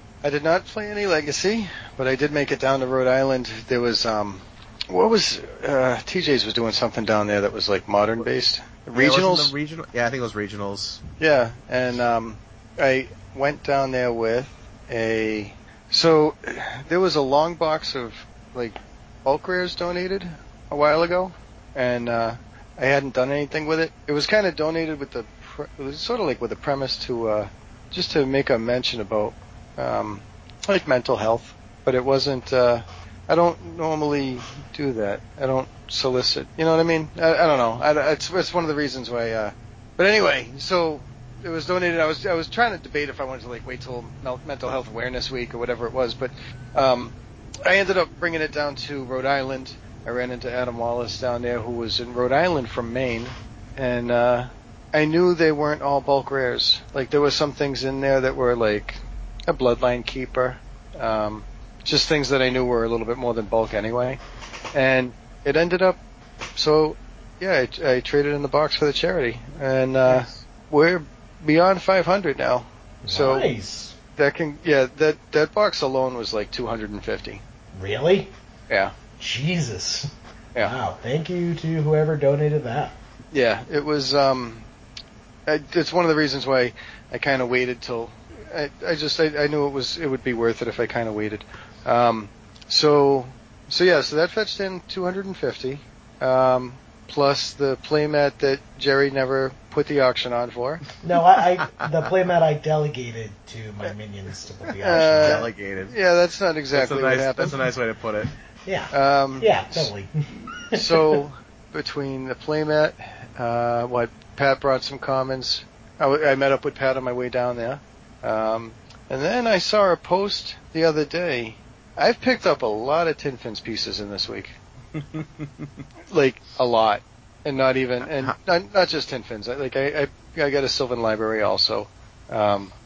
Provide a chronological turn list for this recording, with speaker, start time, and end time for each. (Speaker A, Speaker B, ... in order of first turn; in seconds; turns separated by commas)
Speaker A: 0.2-9.5, Speaker B: 8.9-11.0, Speaker A: 11.2-47.1, Speaker A: 47.6-64.2, Speaker A: 64.7-66.0, Speaker A: 66.6-73.5, Speaker C: 73.1-74.0, Speaker A: 74.2-77.4, Speaker C: 77.7-78.3, Speaker A: 78.7-78.9, Speaker C: 79.2-80.1, Speaker C: 80.6-83.0, Speaker A: 83.3-84.7, Speaker A: 85.5-100.8, Speaker C: 101.0-105.5, Speaker A: 104.8-107.7, Speaker B: 105.0-105.9, Speaker B: 106.7-108.3, Speaker C: 108.7-110.1, Speaker A: 108.9-109.9, Speaker C: 110.7-111.2, Speaker A: 110.7-124.6, Speaker B: 125.0-125.8, Speaker A: 126.1-132.7